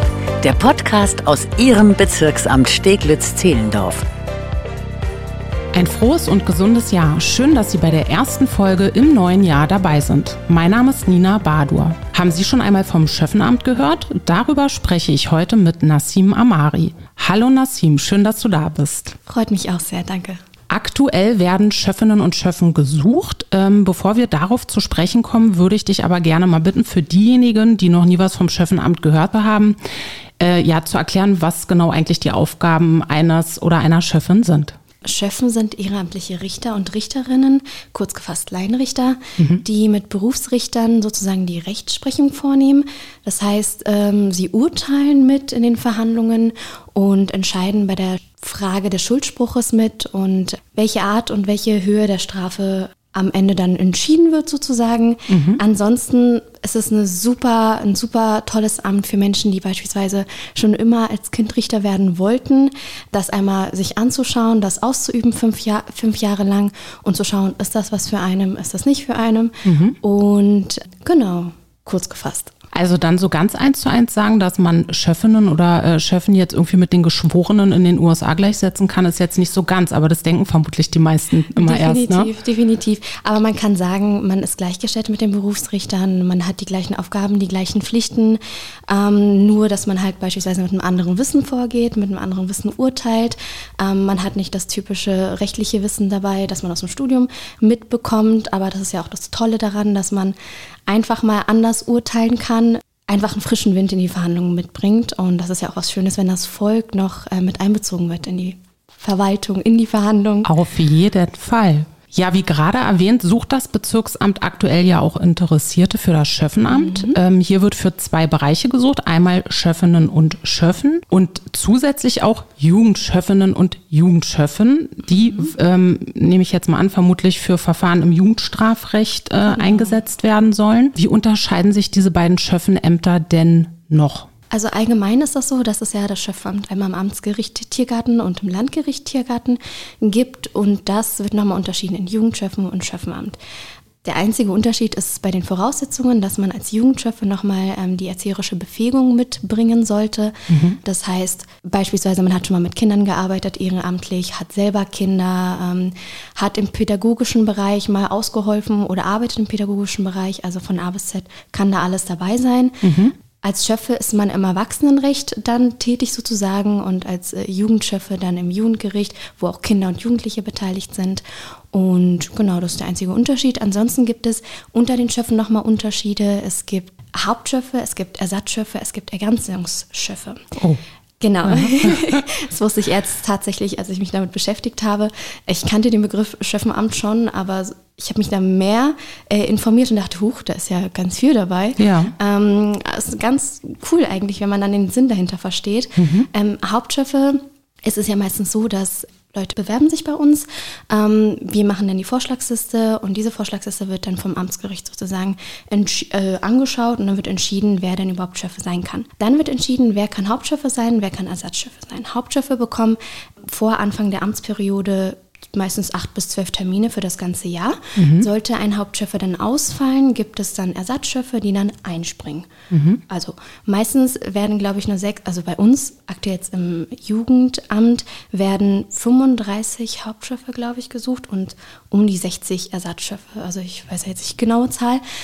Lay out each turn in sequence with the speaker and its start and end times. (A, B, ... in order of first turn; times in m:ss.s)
0:00.4-0:04.0 A
0:05.7-0:19.1 B
0:19.3-0:20.4 C
0:20.7-0:29.8 B
0:30.4-0:34.7 B
0:35.0-1:12.5 C
0:55.3-0:55.6 B
1:09.6-1:10.0 B
1:12.7-1:22.3 B
1:21.5-1:40.4 C
1:40.9-1:50.5 C
1:50.4-2:14.3 B
1:56.7-1:57.2 C
2:05.1-2:05.5 C
2:09.5-2:10.0 C
2:14.5-2:23.4 C
2:24.0-2:42.8 C
2:30.5-2:30.8 B
2:42.8-2:43.1 B
2:43.4-3:00.5 C
3:01.2-3:42.5 C
3:01.4-3:02.2 B
3:11.8-3:12.1 B
3:16.0-3:16.3 B
3:38.0-3:38.3 B
3:42.7-3:43.0 B
3:43.1-3:55.0 C